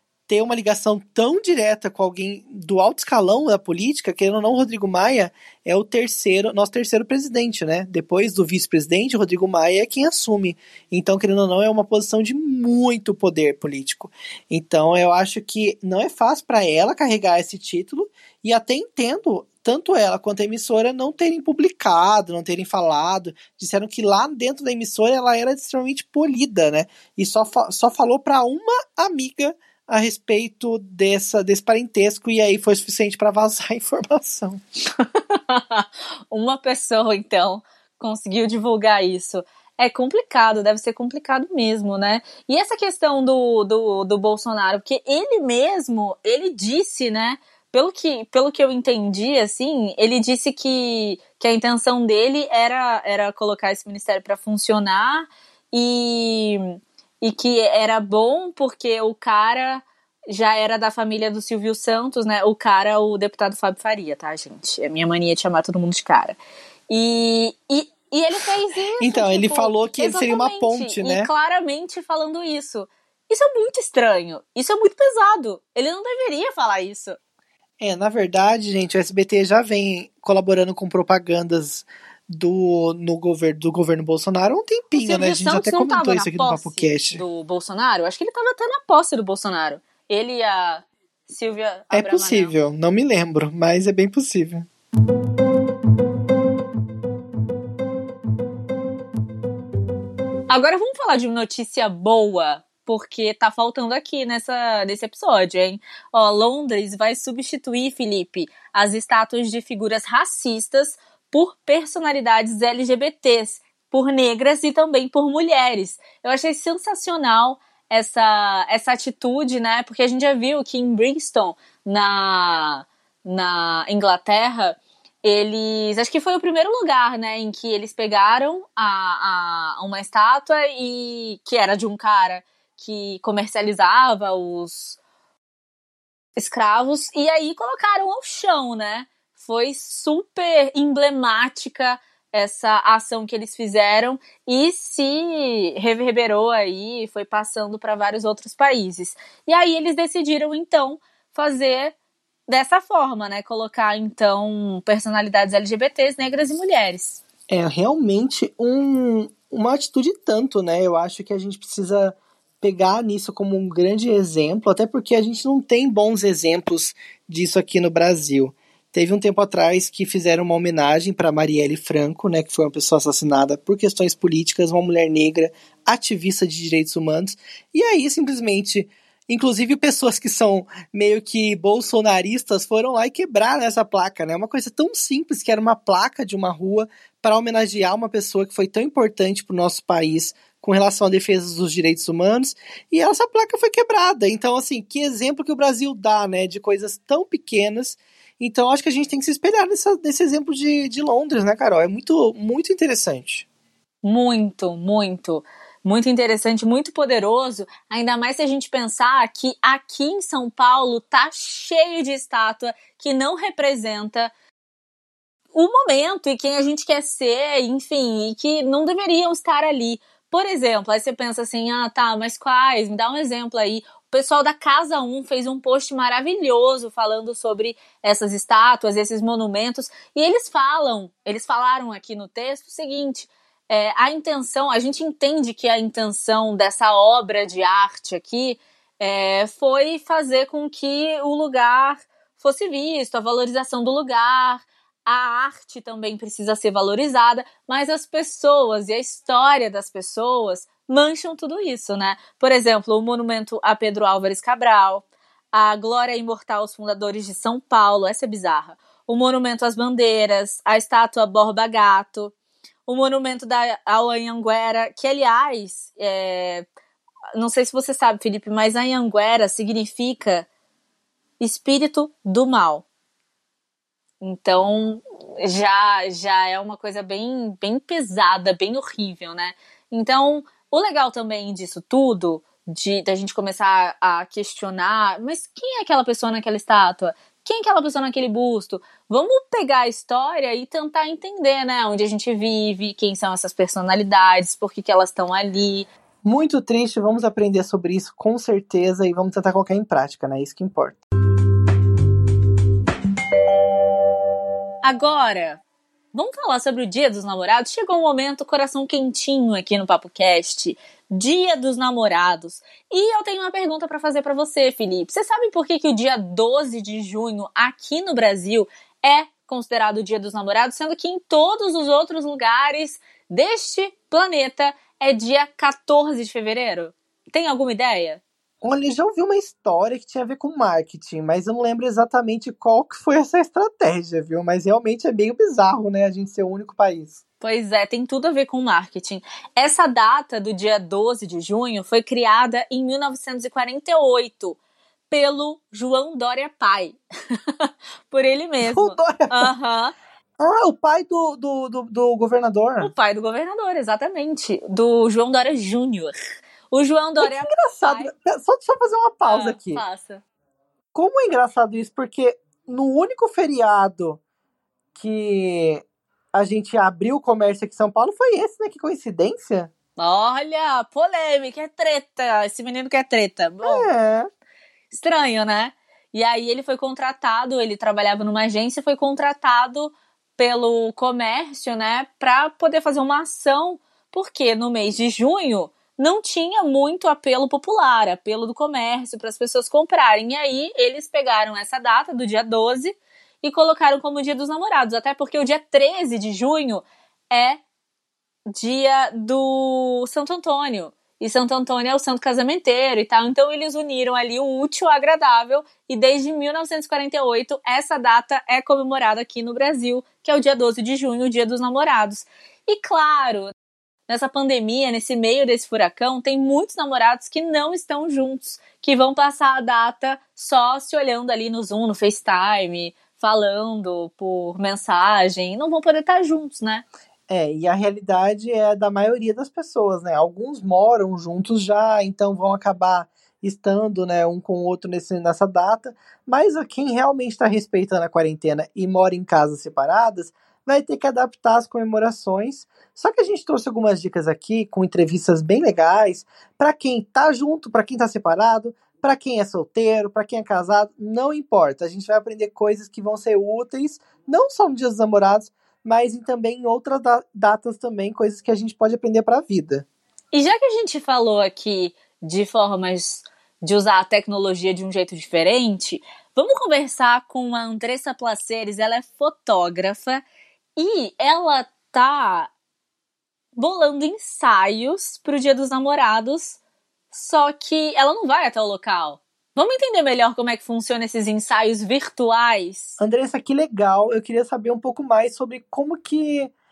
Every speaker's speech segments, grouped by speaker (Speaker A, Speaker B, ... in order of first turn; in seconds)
Speaker A: 0.3-34.6, 69.0-71.3, 77.8-87.2, 91.9-94.7, 157.5-203.4, 296.2-301.0, 328.6-337.2, 348.6-349.5, 350.4-352.9, 357.2-359.8, 360.9-364.2, 364.9-365.8, 366.3-369.7, 373.6-374.3, 427.3-459.9, 483.0-486.5
Speaker B: 35.0-66.4, 66.9-77.2, 84.9-92.5, 100.5-135.0, 136.3-151.9, 152.5-157.2, 204.0-214.3, 215.5-262.3, 262.9-266.6, 267.3-270.5, 271.4-272.8, 274.2-295.9, 304.8-305.6, 306.1-328.2, 337.4-344.6, 345.1-349.9, 352.8-356.2, 356.7-358.1, 359.2-360.2, 370.0-373.9, 374.9-397.6, 398.5-413.5, 414.1-426.8, 460.3-470.2, 470.8-472.5, 473.5-476.6, 477.1-483.0